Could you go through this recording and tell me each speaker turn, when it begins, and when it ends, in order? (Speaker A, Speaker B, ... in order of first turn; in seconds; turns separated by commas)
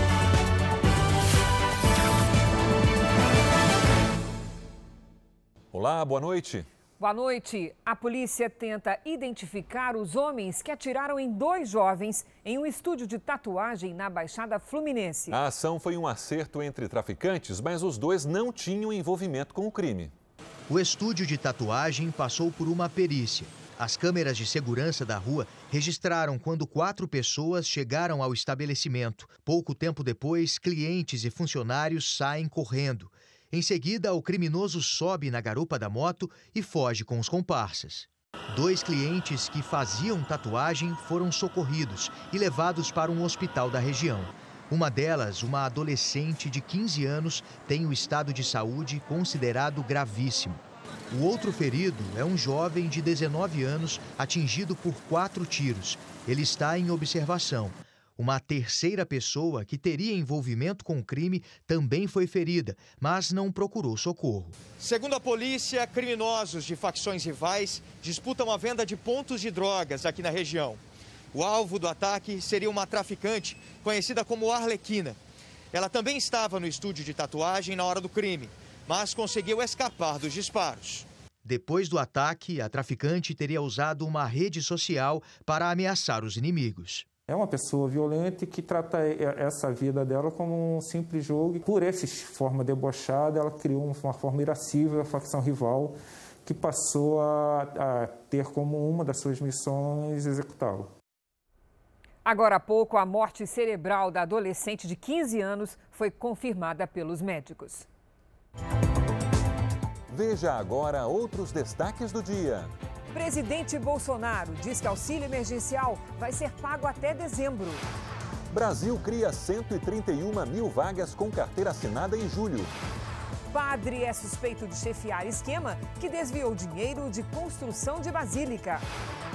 Speaker A: 5.7-6.7, Speaker B: 7.0-15.4, Speaker A: 15.3-20.1, Speaker C: 20.7-44.3, Speaker C: 44.8-50.6, Speaker C: 51.1-64.5, Speaker D: 64.7-70.8, Speaker D: 71.3-75.2, Speaker D: 75.7-81.1, Speaker C: 81.5-87.0, Speaker E: 87.3-100.9, Speaker B: 102.2-107.9, Speaker A: 110.1-112.7, Speaker B: 113.1-117.8, Speaker A: 118.5-122.7, Speaker B: 123.5-128.8